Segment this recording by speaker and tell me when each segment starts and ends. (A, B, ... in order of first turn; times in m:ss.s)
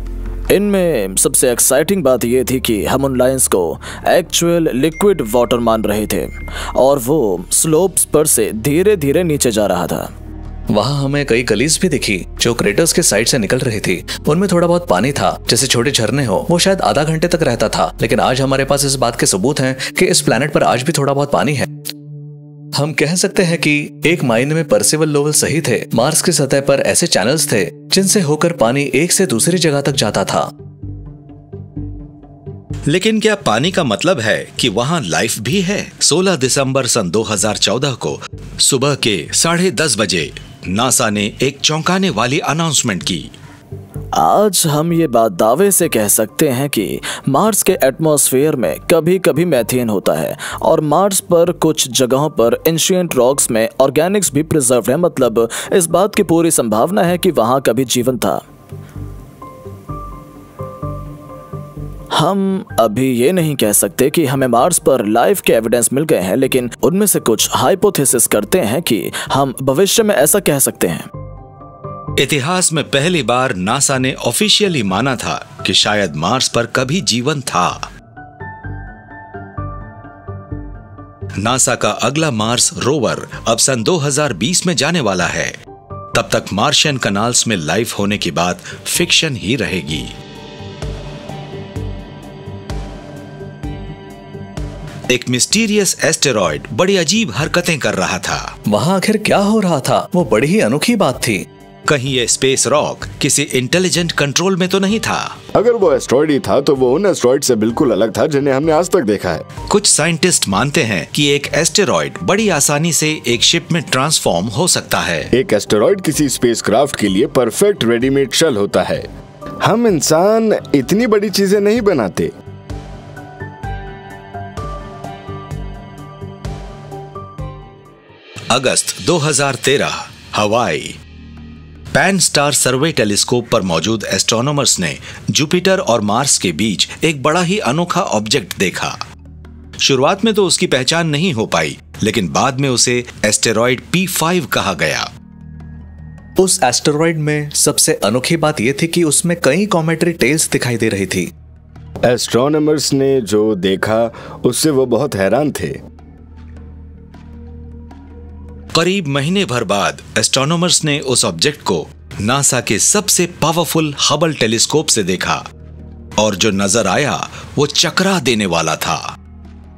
0:00.5-0:10.1 A
0:10.7-0:21.7 B
0:22.7-0:30.5 B
0:32.9-0:43.3 C
0:44.2-0:58.4 A
1:02.1-1:11.1 A
1:12.2-1:17.9 C
1:21.4-1:25.6 C
1:26.1-1:30.1 C
1:35.1-1:38.6 C
1:38.7-1:41.5 B
1:41.9-1:45.4 C
1:45.5-1:49.5 D
1:49.7-1:55.3 C
1:55.3-1:59.1 D
1:59.6-2:02.3 D
2:08.5-2:11.0 C
2:11.9-2:19.0 C
2:19.8-2:25.1 C
2:26.4-2:31.3 B
2:32.0-2:35.8 D
2:38.7-2:45.4 C
2:46.2-2:49.2 C